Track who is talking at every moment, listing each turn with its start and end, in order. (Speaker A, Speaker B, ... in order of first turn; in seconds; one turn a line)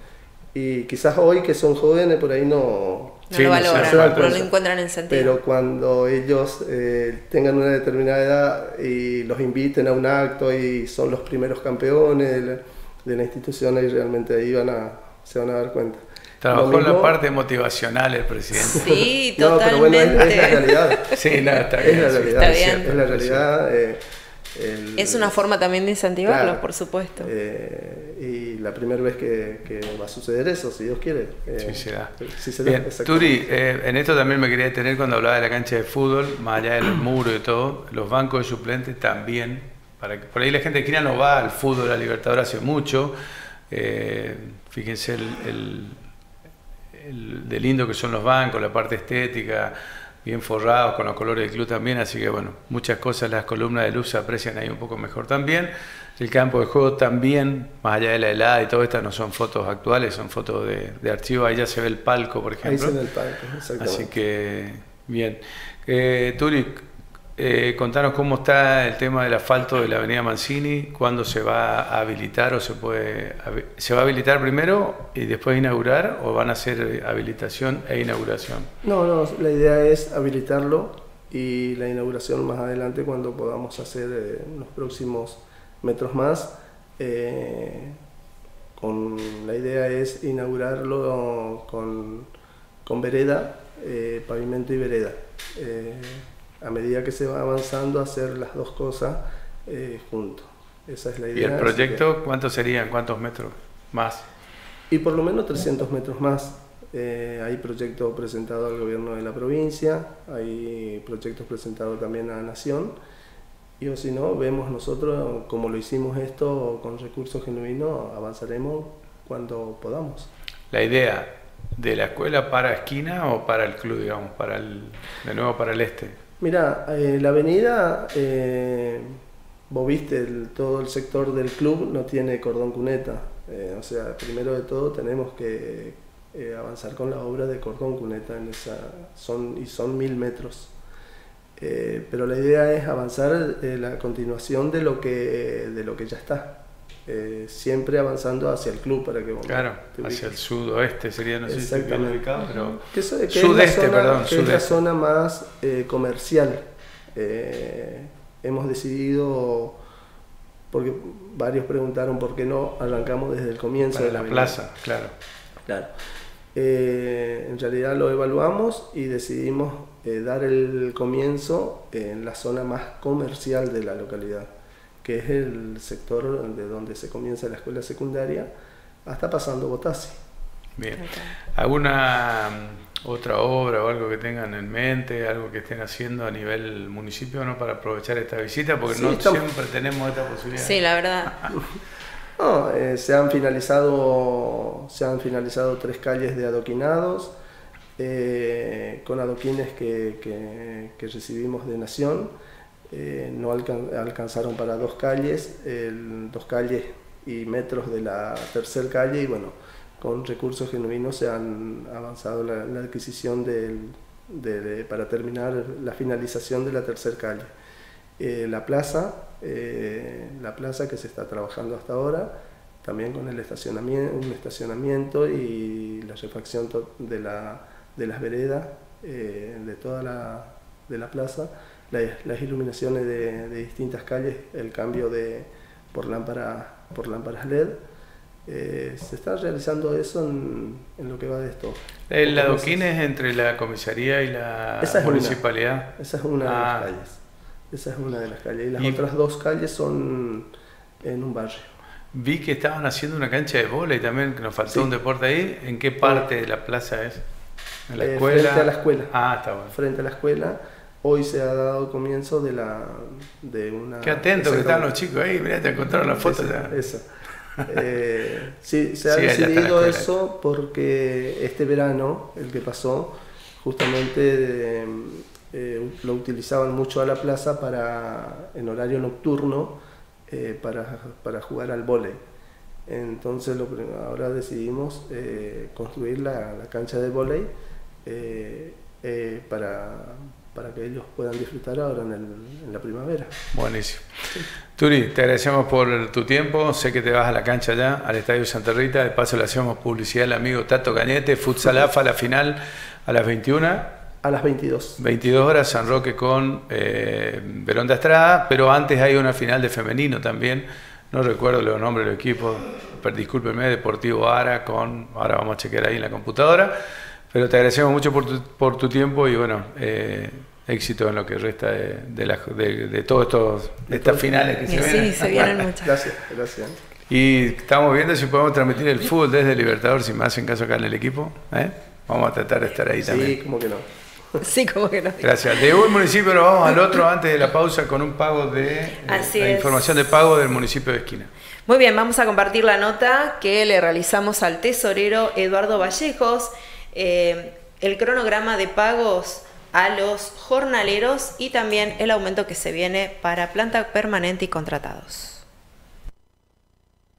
Speaker A: 0.5-4.5
Speaker B: 3.3-5.4
Speaker C: 3.3-4.4
Speaker A: 5.1-17.2
Speaker C: 16.4-18.9
Speaker A: 18.7-21.2
Speaker B: 18.7-21.2
Speaker C: 21.1-23.4
Speaker A: 21.8-24.0
Speaker B: 22.2-22.9
Speaker A: 24.6-25.4
Speaker B: 25.0-27.3
Speaker A: 26.2-26.6
Speaker A: 27.2-33.5
Speaker C: 31.6-43.1
Speaker C: 43.7-46.0
Speaker C: 46.9-63.0
Speaker A: 62.6-64.1
Speaker C: 63.8-66.8
Speaker C: 67.4-78.7
Speaker A: 78.8-88.0
Speaker A: 88.8-92.3
Speaker A: 92.8-102.1
Speaker C: 101.3-104.2
Speaker A: 104.9-113.0
Speaker A: 113.8-120.3
Speaker C: 120.7-126.2
Speaker A: 126.4-129.2
Speaker A: 129.7-140.7
Speaker A: 141.6-150.4
Speaker C: 149.5-154.7
Speaker A: 151.5-152.3
Speaker A: 152.8-156.6
Speaker A: 157.2-159.8
Speaker A: 160.7-164.6
Speaker C: 163.9-165.1
Speaker A: 165.7-165.9
Speaker A: 166.6-174.5
Speaker A: 175.0-178.5
Speaker A: 179.1-180.2
Speaker C: 180.8-190.8
Speaker B: 180.9-181.3
Speaker A: 188.9-189.4
Speaker B: 190.6-191.5
Speaker A: 192.4-197.3
Speaker A: 198.0-202.3
Speaker A: 202.9-217.5
Speaker A: 218.2-222.3
Speaker A: 222.8-237.8
Speaker A: 238.5-242.9
Speaker C: 242.1-245.9
Speaker A: 244.8-245.4
Speaker A: 245.9-247.2
Speaker C: 246.4-246.9
Speaker A: 247.7-250.5
Speaker A: 251.0-251.7
Speaker C: 252.1-257.2
Speaker A: 254.7-254.9
Speaker A: 256.0-256.3
Speaker C: 257.9-259.8
Speaker A: 258.0-259.1
Speaker A: 259.7-264.9
Speaker C: 264.0-266.8
Speaker A: 266.2-267.1
Speaker A: 267.7-282.2
Speaker C: 269.1-270.1
Speaker A: 282.9-287.5
Speaker A: 288.1-293.3
Speaker C: 293.5-294.1
Speaker C: 294.7-303.9
Speaker A: 304.2-305.0
Speaker C: 305.0-316.7
Speaker C: 317.3-325.6
Speaker A: 323.9-326.8
Speaker B: 324.7-325.9
Speaker C: 327.1-333.4
Speaker A: 333.0-333.9
Speaker B: 334.4-335.8
Speaker C: 335.2-341.3
Speaker B: 339.0-339.9
Speaker B: 341.7-355.4